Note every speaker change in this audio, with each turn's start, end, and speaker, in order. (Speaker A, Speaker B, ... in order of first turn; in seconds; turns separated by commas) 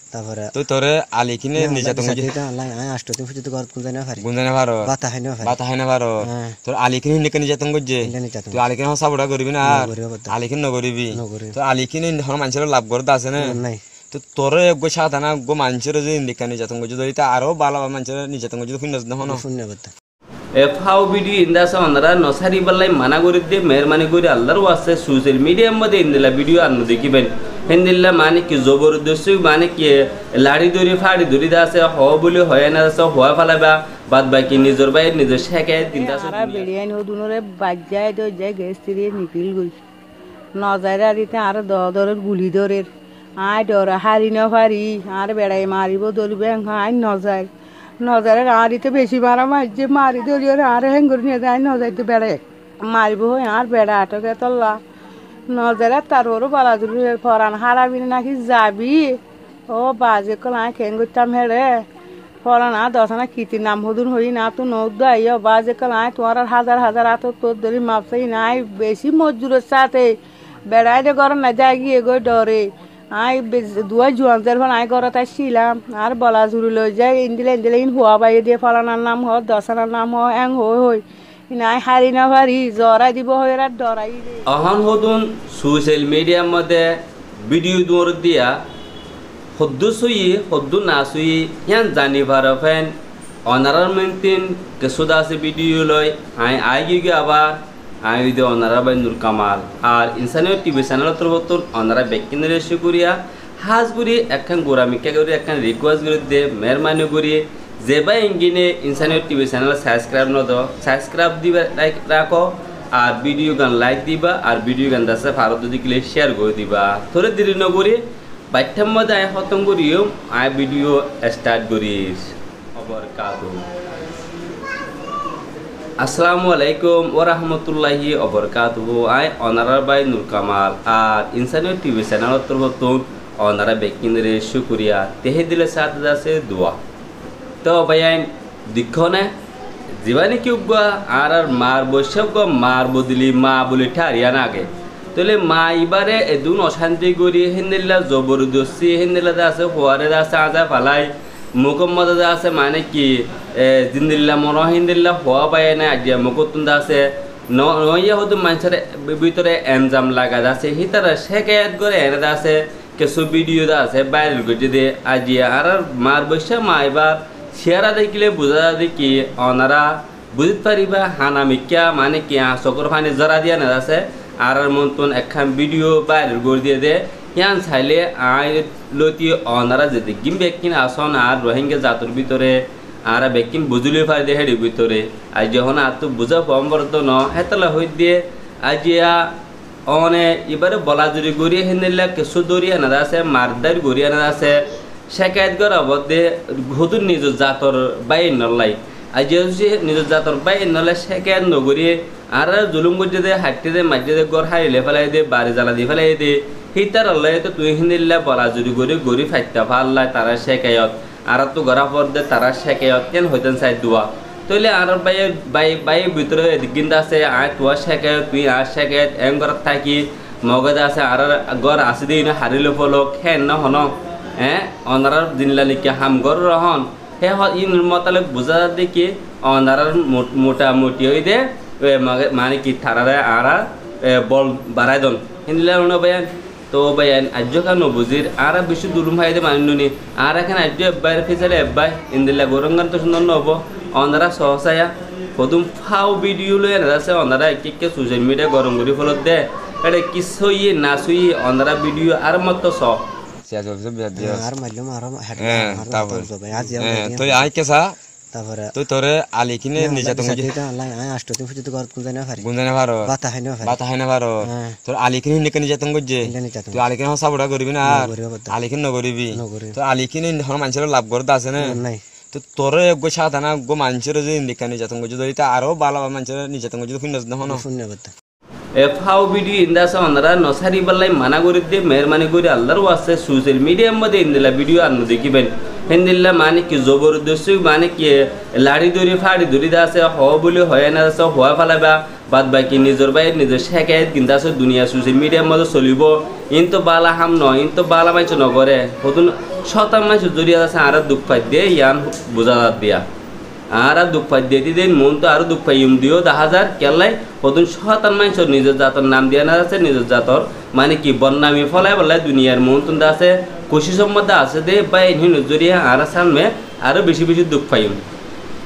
Speaker A: 0.1-0.5, Speaker B: 0.5-2.4, Speaker A: 1.6-4.2, Speaker B: 4.2-4.9, Speaker A: 4.8-5.5, Speaker B: 5.4-13.6, Speaker A: 6.2-6.6, Speaker A: 8.0-8.6, Speaker A: 9.7-10.3, Speaker A: 11.1-11.6, Speaker A: 13.4-13.8, Speaker B: 14.1-19.4, Speaker A: 19.2-19.9, Speaker C: 20.6-36.7, Speaker D: 35.9-39.8, Speaker D: 40.5-47.5, Speaker D: 48.0-54.8, Speaker D: 55.5-61.9, Speaker D: 62.4-84.4, Speaker C: 84.5-88.6, Speaker C: 89.6-93.0, Speaker C: 93.5-118.0, Speaker C: 118.5-123.6, Speaker C: 126.0-136.8, Speaker C: 137.6-139.3, Speaker C: 140.0-189.3, Speaker C: 189.9-253.0, Speaker B: 253.5-254.5, Speaker A: 254.2-257.5, Speaker B: 255.4-258.0, Speaker A: 258.3-258.8, Speaker B: 258.7-260.6, Speaker A: 259.8-262.5, Speaker B: 262.4-263.1, Speaker A: 263.0-263.8, Speaker B: 263.6-271.8, Speaker A: 264.4-264.8, Speaker A: 266.2-266.8, Speaker A: 267.9-268.5, Speaker A: 269.3-269.8, Speaker A: 271.6-272.0, Speaker B: 272.3-277.6, Speaker A: 277.4-278.1, Speaker C: 278.8-303.0, Speaker C: 303.7-318.0